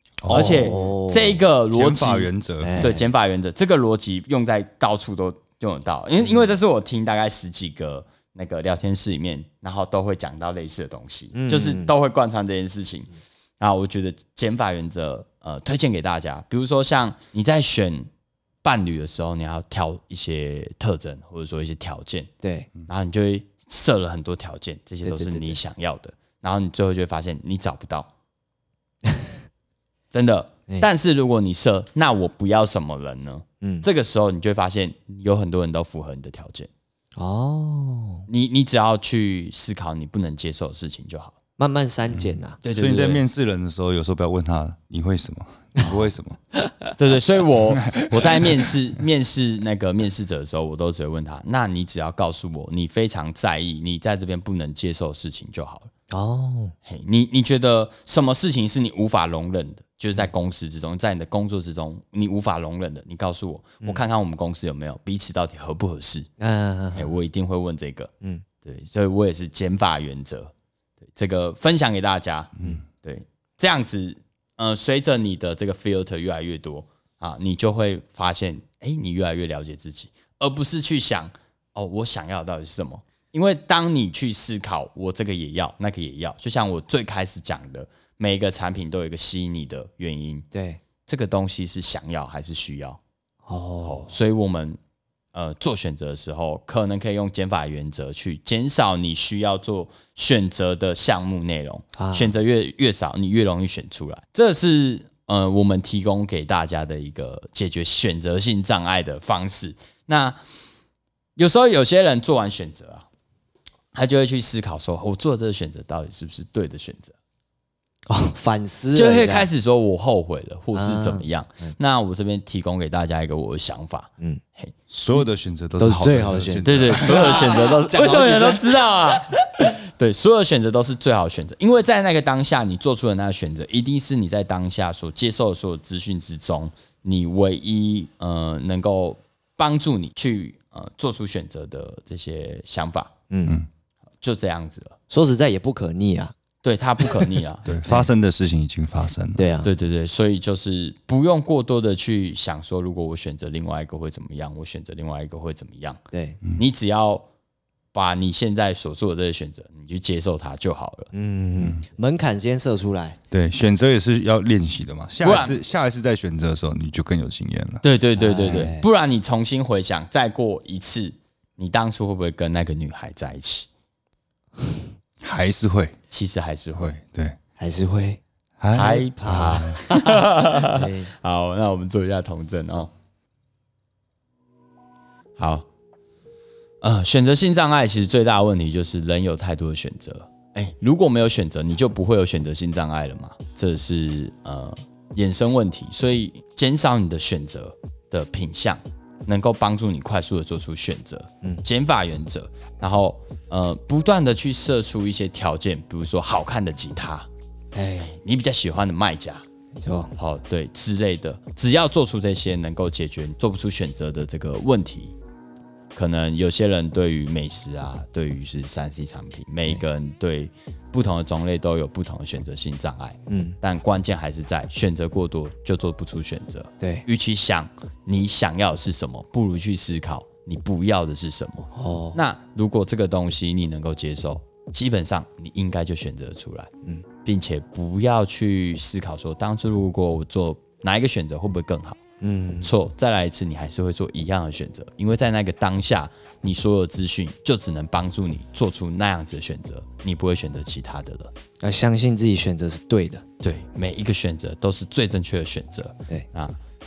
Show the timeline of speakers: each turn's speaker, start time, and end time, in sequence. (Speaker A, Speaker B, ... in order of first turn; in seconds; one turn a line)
Speaker A: 0.2-0.8
Speaker B: 0.3-18.1
Speaker C: 0.3-1.4
Speaker A: 1.7-2.9
Speaker C: 2.6-3.0
Speaker C: 11.3-11.9
Speaker B: 18.6-22.3
Speaker C: 22.4-22.7
Speaker B: 22.9-28.1
Speaker C: 25.0-25.6
Speaker B: 30.1-36.7
Speaker C: 37.2-38.2
Speaker B: 38.3-41.3
Speaker C: 41.6-42.6
Speaker A: 42.2-46.4
Speaker B: 42.6-43.2
Speaker C: 46.6-46.9
Speaker B: 47.0-55.9
Speaker A: 47.9-48.5
Speaker C: 56.1-56.7
Speaker B: 56.9-66.3
Speaker C: 66.4-67.1
Speaker B: 66.9-68.1
Speaker B: 68.6-70.5
Speaker B: 71.1-90.5
Speaker C: 90.5-90.8
Speaker B: 91.1-93.0
Speaker C: 93.5-94.1
Speaker B: 93.8-94.8
Speaker B: 95.3-110.4
Speaker C: 102.0-102.3
Speaker B: 111.3-113.1
Speaker B: 113.9-117.1
Speaker C: 118.1-119.5
Speaker B: 118.9-124.7
Speaker C: 120.7-121.7
Speaker A: 124.9-127.6
Speaker C: 125.8-129.6
Speaker B: 126.6-143.1
Speaker C: 143.3-143.6
Speaker B: 144.2-144.9
Speaker C: 145.1-146.3
Speaker B: 146.6-147.7
Speaker A: 147.7-149.6
Speaker C: 147.8-148.1
Speaker C: 149.4-149.7
Speaker B: 149.6-156.0
Speaker C: 156.1-156.4
Speaker B: 156.5-157.2
Speaker B: 157.9-161.1
Speaker C: 161.1-163.2
Speaker A: 163.3-167.8
Speaker B: 165.2-165.6
Speaker B: 167.8-173.7
Speaker C: 168.2-168.8
Speaker A: 175.2-175.9
Speaker B: 176.1-177.0
Speaker A: 176.7-177.4
Speaker C: 177.6-178.2
Speaker A: 178.6-179.8
Speaker B: 178.7-182.9
Speaker C: 179.2-181.1
Speaker B: 185.4-185.7
Speaker B: 186.8-207.3
Speaker C: 207.7-208.1
Speaker B: 208.0-209.4
Speaker C: 209.8-210.1
Speaker B: 210.2-215.1
Speaker B: 215.9-236.7
Speaker C: 223.3-223.6
Speaker C: 226.8-227.0
Speaker C: 231.7-232.2
Speaker B: 237.2-242.0
Speaker C: 242.2-242.7
Speaker B: 242.6-251.3
Speaker C: 251.6-253.2
Speaker B: 253.4-256.6